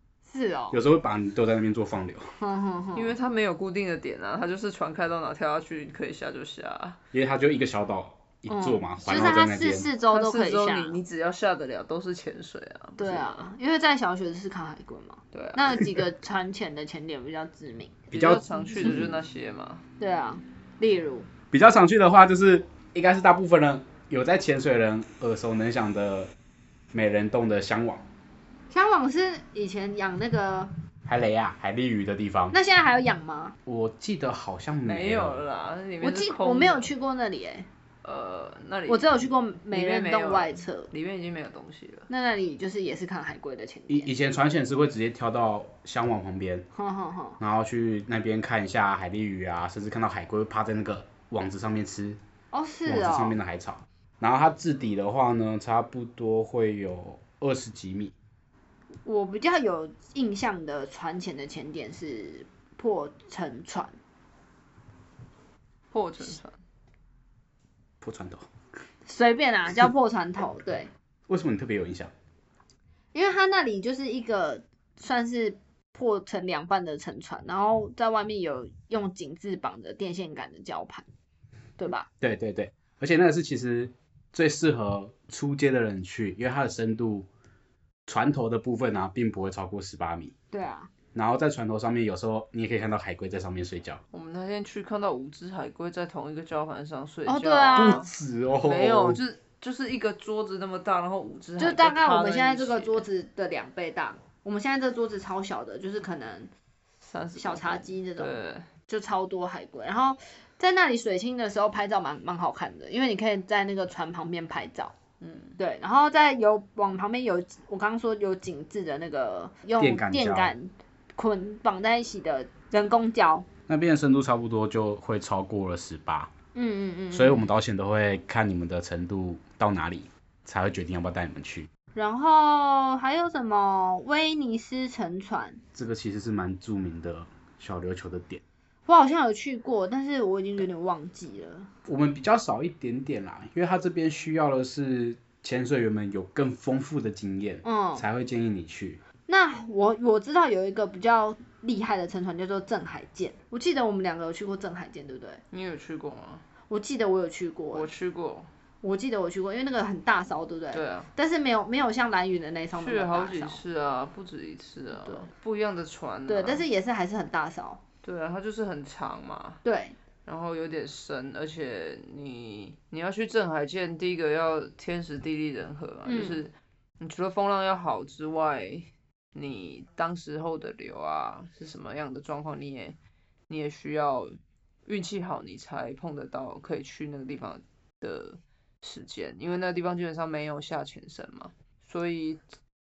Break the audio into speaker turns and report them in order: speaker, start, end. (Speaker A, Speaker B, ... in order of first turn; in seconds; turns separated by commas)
Speaker A: 0.3-0.8, Speaker B: 0.7-2.3, Speaker A: 2.4-3.1, Speaker C: 2.9-7.0, Speaker B: 7.1-9.9, Speaker A: 8.5-11.0, Speaker C: 10.1-13.4, Speaker A: 13.0-19.0, Speaker C: 15.3-15.9, Speaker B: 18.1-19.2, Speaker C: 18.1-19.8, Speaker A: 20.0-21.3, Speaker B: 21.5-26.3, Speaker B: 26.9-28.0, Speaker A: 28.7-30.7, Speaker B: 31.1-32.5, Speaker A: 32.5-33.5, Speaker B: 33.6-35.4, Speaker C: 34.8-36.9, Speaker A: 36.0-37.7, Speaker C: 38.0-42.1, Speaker A: 38.9-40.9, Speaker A: 42.1-44.1, Speaker B: 43.9-46.7, Speaker A: 46.7-47.4, Speaker B: 47.4-52.2, Speaker A: 52.5-53.4, Speaker B: 52.9-58.1, Speaker A: 59.0-64.0, Speaker C: 65.9-66.6, Speaker B: 68.0-68.5, Speaker A: 69.0-70.9, Speaker B: 71.3-72.1, Speaker A: 73.1-81.0, Speaker A: 81.8-82.1, Speaker B: 82.2-87.3, Speaker B: 88.0-90.3, Speaker A: 90.5-90.9, Speaker B: 91.1-94.0, Speaker C: 94.1-103.1, Speaker A: 97.2-98.0, Speaker B: 97.7-99.2, Speaker A: 101.6-106.5, Speaker C: 107.0-108.7, Speaker A: 107.3-108.3, Speaker A: 108.9-114.9, Speaker C: 115.2-115.6, Speaker A: 115.6-123.5, Speaker B: 119.8-120.5, Speaker B: 123.7-126.3, Speaker A: 126.5-127.5, Speaker B: 127.1-131.7, Speaker A: 131.9-135.6, Speaker B: 135.7-138.4, Speaker A: 138.9-141.7, Speaker B: 141.8-149.0, Speaker A: 147.6-148.1, Speaker A: 149.3-155.4, Speaker C: 155.5-156.4, Speaker A: 156.7-157.9, Speaker C: 157.7-158.5, Speaker A: 158.8-163.6, Speaker C: 160.7-161.1, Speaker C: 162.7-166.7, Speaker A: 165.0-165.3, Speaker A: 166.3-167.8, Speaker C: 168.0-169.6, Speaker A: 169.6-169.9, Speaker C: 170.2-182.9, Speaker A: 176.0-176.4, Speaker C: 183.5-192.4